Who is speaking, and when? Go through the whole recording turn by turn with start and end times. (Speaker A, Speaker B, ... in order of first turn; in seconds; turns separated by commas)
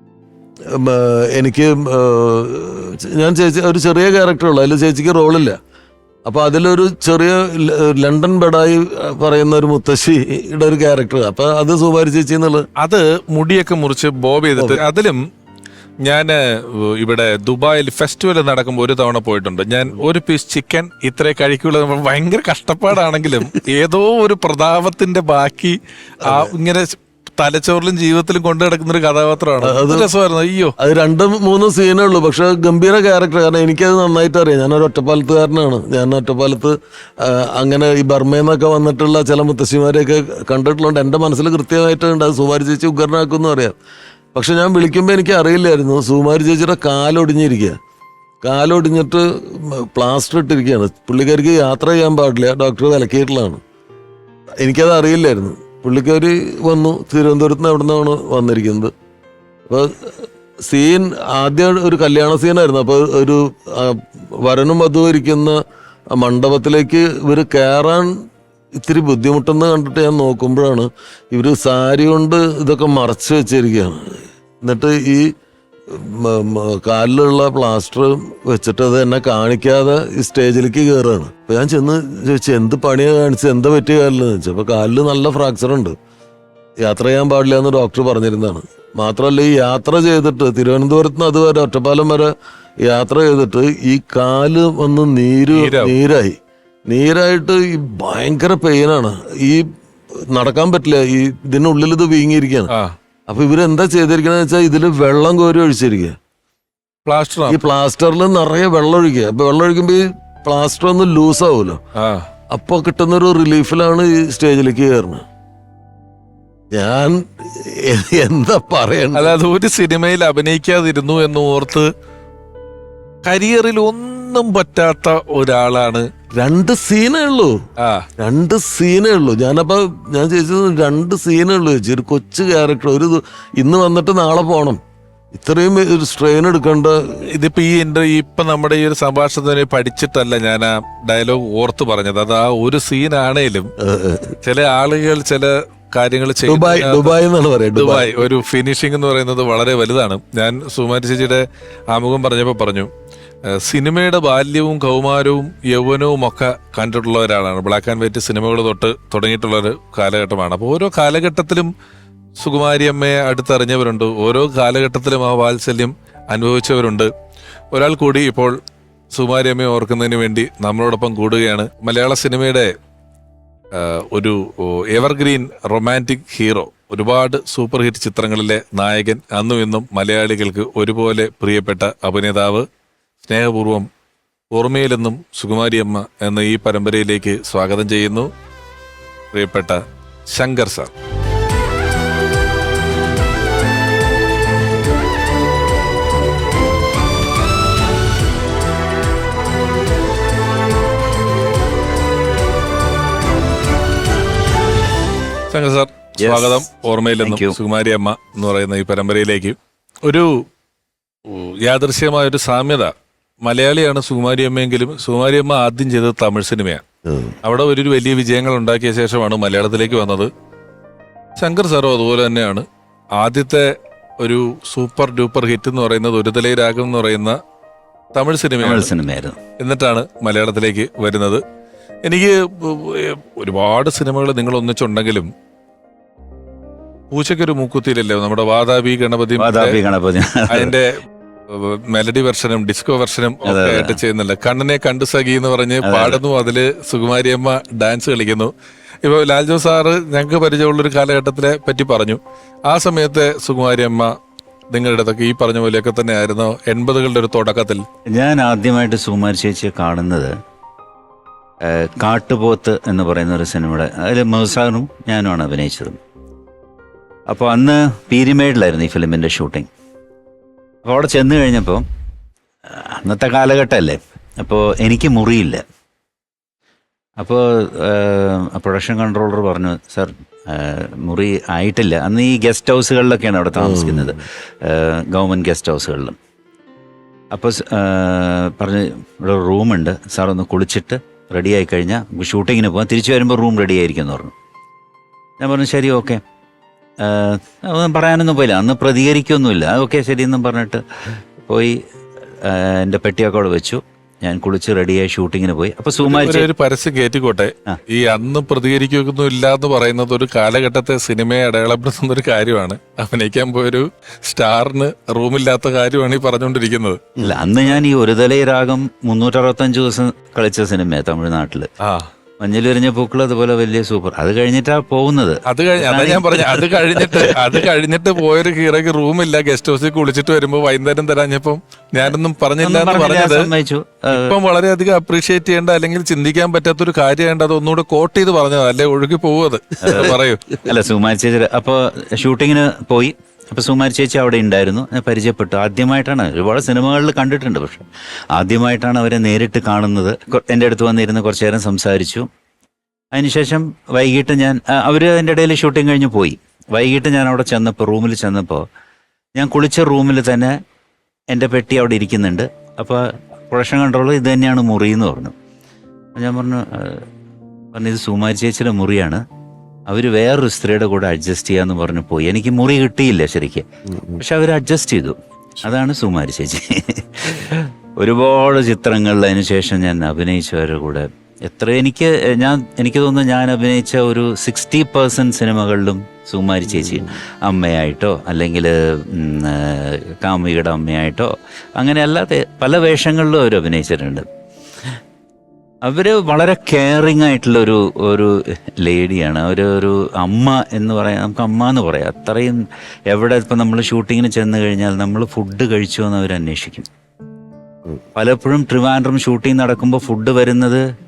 Speaker A: 0.8-5.6, Speaker A: 6.2-12.6, Speaker B: 12.8-15.2, Speaker B: 16.0-30.7, Speaker A: 26.2-26.5, Speaker A: 29.6-30.1, Speaker A: 30.8-43.8, Speaker A: 44.3-47.8, Speaker A: 48.4-53.6, Speaker A: 54.6-58.9, Speaker A: 59.7-60.1, Speaker A: 60.7-65.6, Speaker A: 66.1-68.1, Speaker A: 68.8-75.3, Speaker A: 75.9-86.0, Speaker A: 86.8-92.3, Speaker A: 92.8-99.7, Speaker B: 95.6-95.9, Speaker A: 100.3-102.7, Speaker A: 103.3-106.2, Speaker B: 107.0-107.6, Speaker A: 107.5-111.8, Speaker B: 112.0-112.3, Speaker A: 112.5-115.2, Speaker A: 116.7-119.3, Speaker B: 119.2-121.9, Speaker B: 123.2-126.1, Speaker A: 126.4-127.6, Speaker B: 127.8-128.1, Speaker A: 128.2-134.8, Speaker A: 135.3-137.0, Speaker B: 137.3-143.7, Speaker A: 143.8-144.3, Speaker B: 144.4-147.2, Speaker A: 146.4-148.2, Speaker B: 147.7-152.9, Speaker B: 153.5-161.7, Speaker B: 162.3-167.1, Speaker B: 167.7-168.6, Speaker B: 169.1-172.7, Speaker B: 173.7-182.7, Speaker B: 183.2-183.9, Speaker B: 184.5-188.3, Speaker B: 189.3-190.9, Speaker B: 205.5-210.4, Speaker C: 206.2-206.7, Speaker C: 207.2-207.5, Speaker B: 211.2-216.8, Speaker B: 217.4-220.3, Speaker B: 221.4-227.4, Speaker B: 228.1-228.8, Speaker C: 228.6-229.4, Speaker B: 229.6-231.4, Speaker B: 232.0-235.3, Speaker B: 237.1-239.8, Speaker C: 239.4-240.7, Speaker B: 240.5-241.0, Speaker B: 241.5-248.5, Speaker C: 243.4-244.0, Speaker C: 245.8-246.2, Speaker B: 249.0-254.1, Speaker B: 254.7-257.9, Speaker C: 258.1-260.3, Speaker C: 261.6-266.0, Speaker C: 267.3-269.7, Speaker C: 270.8-271.8, Speaker C: 272.7-275.6, Speaker C: 277.2-286.1, Speaker A: 283.6-284.2, Speaker C: 287.3-294.3, Speaker C: 295.4-296.2, Speaker C: 297.0-300.8, Speaker C: 301.4-301.8, Speaker C: 302.4-306.5, Speaker B: 306.0-317.1, Speaker C: 317.2-321.7, Speaker B: 321.8-322.1, Speaker C: 322.4-327.6, Speaker B: 325.5-333.5, Speaker C: 332.6-334.3, Speaker B: 334.1-340.6, Speaker C: 339.8-352.3, Speaker C: 353.1-358.6, Speaker C: 359.4-360.5, Speaker C: 361.3-365.3, Speaker C: 366.1-367.1, Speaker C: 367.7-369.2, Speaker C: 369.9-373.7, Speaker A: 373.9-374.2, Speaker C: 374.2-394.2, Speaker A: 386.8-387.0, Speaker C: 395.8-406.9, Speaker C: 408.1-410.8